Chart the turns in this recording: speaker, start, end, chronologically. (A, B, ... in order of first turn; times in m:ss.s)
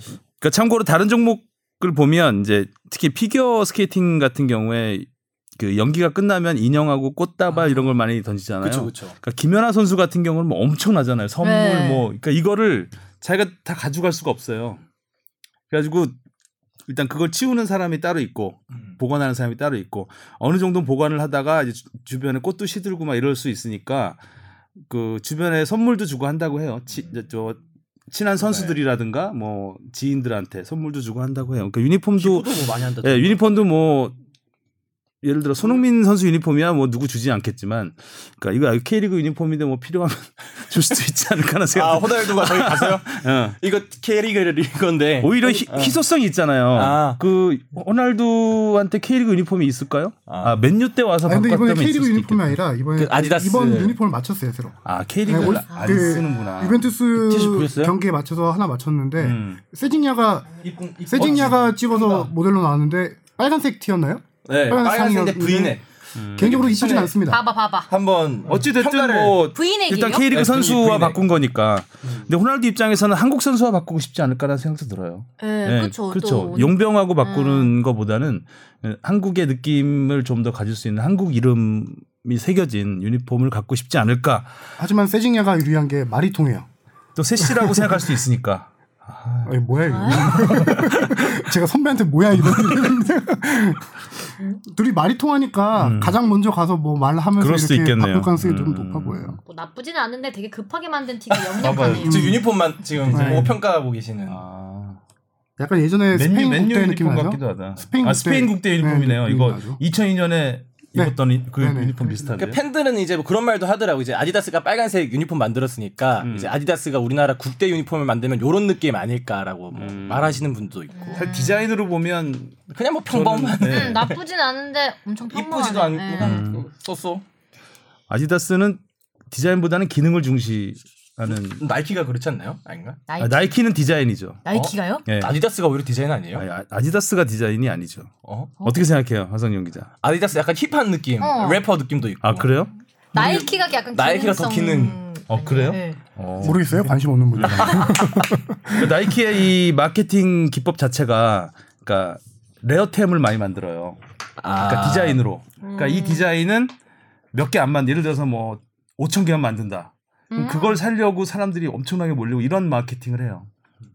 0:00.4-0:14.8 A
0:08.6-0:09.1 B
0:11.4-0:12.0 C
0:15.7-0:16.2 A
0:16.9-0:24.2 A
0:24.8-0:34.2 A
0:28.5-0:28.8 B
0:32.2-0:33.6 B
0:35.2-0:43.6 A
0:41.7-0:46.0 B
0:45.2-0:52.6 A
0:46.7-0:47.2 B
0:50.3-0:50.6 B
0:51.2-1:00.5 D
0:53.0-0:54.0 B
0:54.8-0:56.8 A
0:55.7-0:56.5 C
0:57.1-0:57.9 B
0:59.2-0:59.6 A
1:00.6-1:02.3 B
1:01.1-1:05.8 D
1:04.4-1:05.8 B
1:06.2-1:06.8 A
1:06.4-1:07.2 B
1:06.4-1:07.4 D
1:07.3-1:07.9 C
1:07.9-1:09.4 B
1:08.5-1:24.5 A
1:09.5-1:10.3 C
1:10.3-1:11.2 B
1:15.4-1:17.7 C
1:24.8-1:26.7 D
1:27.2-1:29.5 A
1:27.4-1:27.8 D
1:29.4-1:33.9 D
1:29.8-1:30.4 C
1:30.1-1:31.3 A
1:34.6-1:39.4 D
1:35.8-1:36.2 A
1:37.4-1:39.4 A
1:39.4-1:42.3 C
1:41.3-1:44.4 B
1:41.6-1:42.4 A
1:42.0-1:42.4 D
1:43.0-1:43.5 A
1:43.1-1:43.6 D
1:44.3-1:45.0 A
1:45.6-1:49.8 D
1:46.1-1:52.6 A
1:50.9-1:52.0 D
1:52.3-2:01.3 B
1:56.2-1:56.5 A
1:59.7-2:00.4 A
2:00.9-2:01.6 C
2:01.1-2:04.1 A
2:02.7-2:04.2 B
2:03.6-2:06.4 C
2:05.3-2:07.2 B
2:06.2-2:06.6 A
2:08.1-2:11.6 A
2:11.6-2:13.0 B
2:13.1-2:13.5 C
2:13.2-2:14.4 A
2:14.4-2:15.0 C
2:14.5-2:16.4 B
2:15.0-2:15.3 A
2:16.4-2:18.1 A
2:18.2-2:18.5 B
2:18.6-2:19.9 A
2:20.0-2:22.5 B
2:21.2-2:21.6 C
2:22.2-2:22.7 A
2:23.1-2:26.0 C
2:23.1-2:25.0 B
2:25.3-2:28.0 A
2:26.4-2:28.8 D
2:27.6-2:28.0 B
2:28.7-2:34.0 A
2:34.4-2:35.2 B
2:34.6-2:36.7 A
2:35.6-2:36.3 C
2:37.3-2:43.5 A
2:40.3-2:40.8 C